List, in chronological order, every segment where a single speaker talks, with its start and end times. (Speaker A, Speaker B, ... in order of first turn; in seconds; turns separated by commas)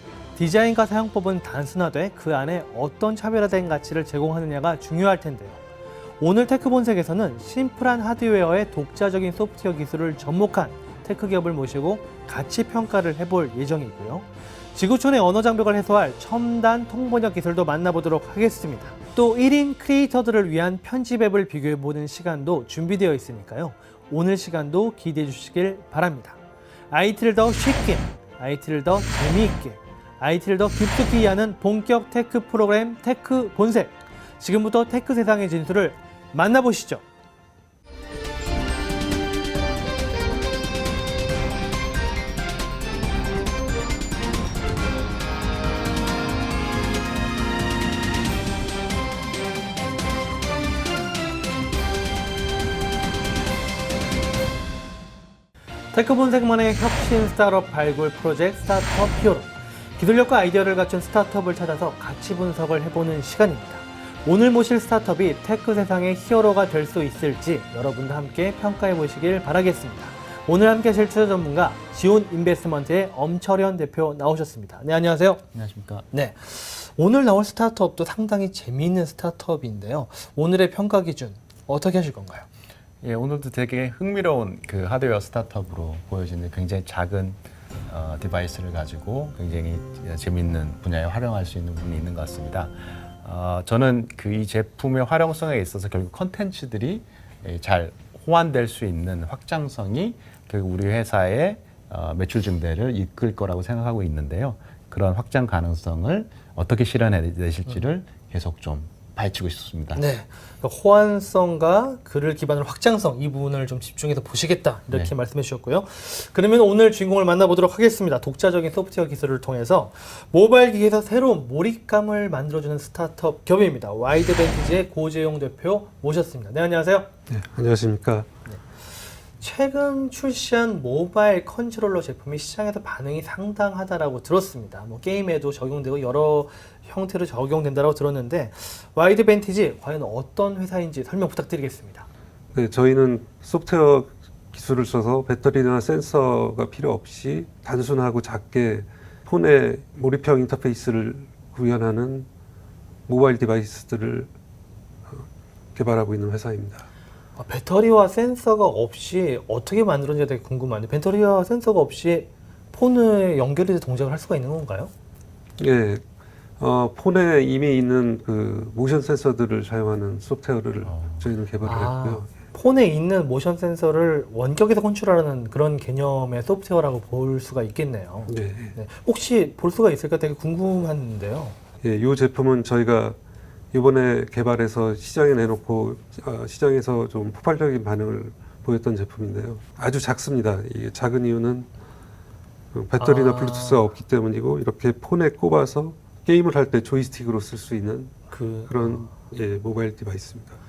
Speaker A: 0.3-5.6, Speaker A: 6.2-26.4, Speaker A: 26.9-37.0, Speaker A: 55.9-75.4, Speaker B: 75.5-76.1, Speaker A: 76.1-82.5, Speaker B: 83.0-110.0, Speaker A: 109.9-127.1, Speaker C: 127.3-128.3, Speaker A: 129.3-142.1, Speaker C: 142.5-152.3, Speaker C: 153.1-154.3, Speaker C: 155.1-156.9, Speaker A: 157.4-164.9, Speaker C: 165.6-166.0, Speaker C: 166.6-172.3, Speaker B: 170.9-171.2, Speaker A: 171.6-181.6, Speaker C: 178.3-178.8, Speaker C: 181.8-183.2, Speaker C: 183.7-191.7, Speaker C: 192.7-200.6, Speaker A: 193.0-193.9, Speaker A: 198.3-199.1